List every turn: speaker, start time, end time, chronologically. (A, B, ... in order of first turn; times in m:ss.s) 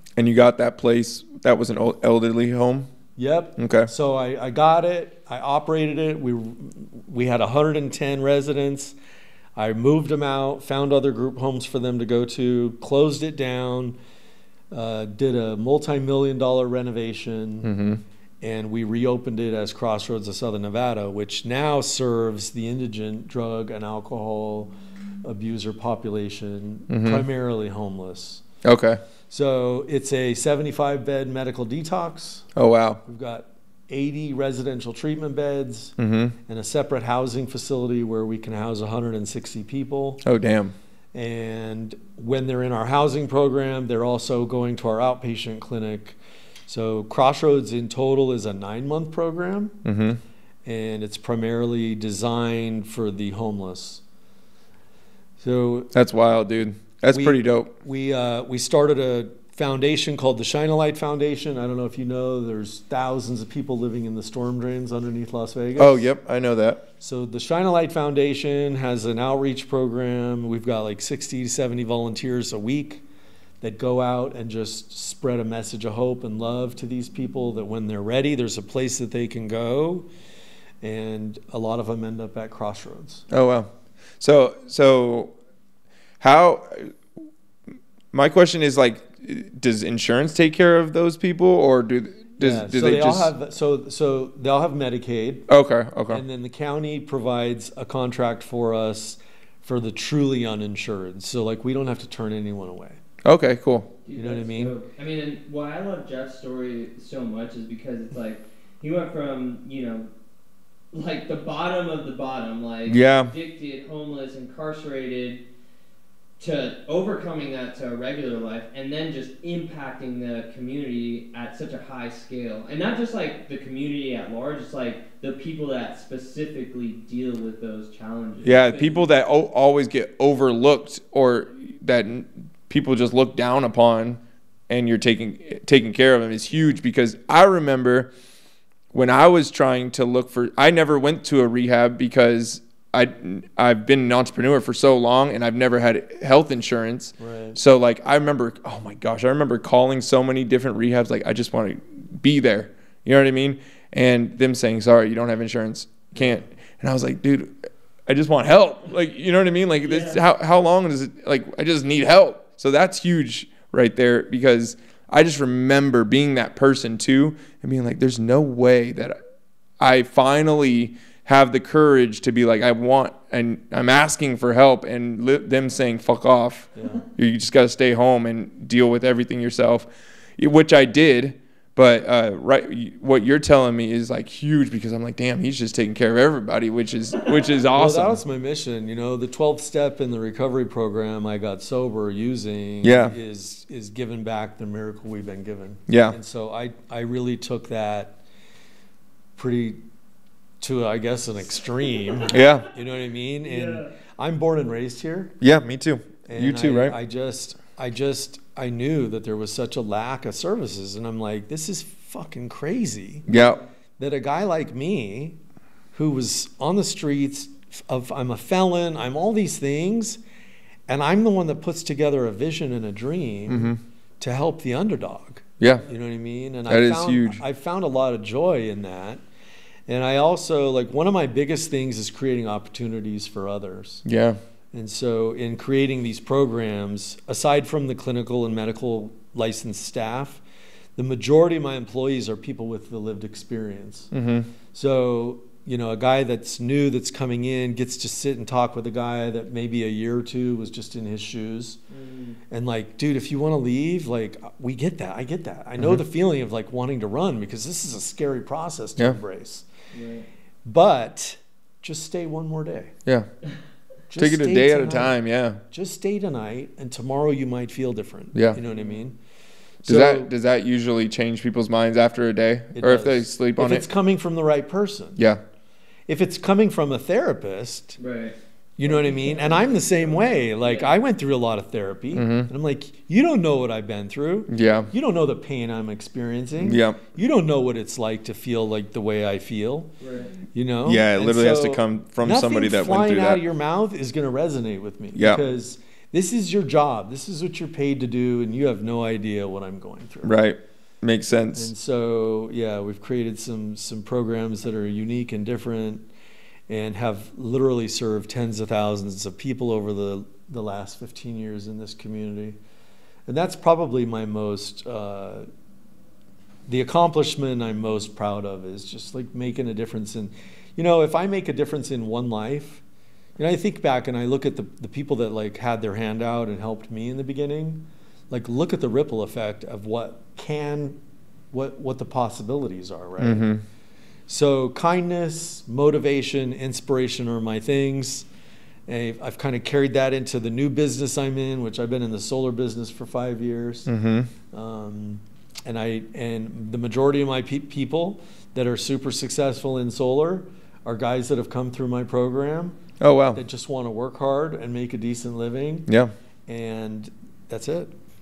0:00.2-0:02.9 A
0:03.2-0:09.0 B
0:03.6-0:03.9 A
0:09.6-0:14.0 B
0:14.7-0:17.7 B
0:17.6-0:18.0 A
0:18.4-0:24.7 B
0:25.2-0:28.4 B
0:26.9-0:27.2 A
0:28.6-0:29.0 A
0:29.3-0:32.5 B
0:32.6-0:33.0 A
0:33.0-0:36.0 B
0:36.0-0:36.4 A
0:36.5-0:40.2 B
0:40.2-0:40.8 A
0:41.1-0:49.8 B
0:49.8-0:50.2 A
0:50.6-0:54.0 B
0:55.4-0:55.9 B
0:55.9-0:57.7 A
0:57.1-1:06.1 B
1:05.8-1:06.8 A
1:07.0-1:13.0 B
1:13.6-1:20.1 B
1:20.8-1:23.3 B
1:23.3-1:25.3 A
1:26.2-1:27.0 A
1:28.1-1:33.3 A
1:32.4-1:35.5 B
1:35.5-1:36.2 A
1:36.1-1:43.0 B
1:43.2-1:43.9 A
1:44.0-1:50.1 C
1:44.2-1:44.8 B
1:50.9-1:55.4 C
1:52.9-1:53.3 A
1:56.4-2:09.1 C
2:08.4-2:18.1 A
2:18.9-2:49.2 A
2:27.2-2:27.6 B
2:36.2-2:36.4 B
2:39.8-2:40.2 C
2:49.8-3:08.2 A
2:56.8-2:57.0 B
3:07.8-3:18.2 B
3:12.8-3:13.2 A
3:15.9-3:16.2 A
3:19.4-3:19.8 B
3:20.6-3:25.4 B
3:22.3-3:22.7 A
3:23.4-3:23.9 C
3:25.4-3:27.0 A
3:26.3-3:33.3 B
3:33.3-3:33.6 A
3:33.3-3:33.6 C
3:34.0-3:35.4 B
3:35.9-3:40.2 B
3:40.9-3:49.2 B
3:43.5-3:43.8 A
3:45.6-3:45.9 A
3:46.7-3:47.4 A
3:49.9-3:54.0 B
3:54.0-3:54.4 A
3:54.7-4:00.4 B
4:01.0-4:04.1 B
4:04.1-4:04.5 A
4:04.7-4:11.8 B
4:11.9-4:12.4 C
4:12.5-4:19.7 B
4:19.9-4:20.3 C
4:20.6-4:23.0 B
4:24.1-4:25.2 B
4:24.2-4:25.6 A
4:25.7-4:29.2 B
4:29.8-4:33.9 A
4:29.8-4:30.3 B
4:32.8-4:35.2 B
4:36.1-4:38.0 B
4:38.0-4:40.9 C
4:38.8-4:49.9 B
4:42.1-4:42.5 A
4:44.5-4:44.9 A
4:46.6-4:47.0 A
4:50.0-4:50.4 C
4:50.5-5:00.3 B
4:50.9-4:53.4 A
4:55.2-4:55.4 A
5:00.2-5:01.7 A
5:01.5-5:06.1 B
5:06.7-5:12.6 B
5:13.3-5:15.5 B
5:16.7-5:22.8 B
5:23.4-5:31.0 B
5:31.5-5:33.5 B
5:33.2-5:33.6 A
5:34.3-5:38.3 B
5:38.9-5:43.9 B
5:43.9-5:44.3 A
5:44.5-5:52.8 B
5:53.0-5:53.4 A
5:53.4-5:55.9 B
5:55.9-5:56.1 A
5:56.5-5:57.9 B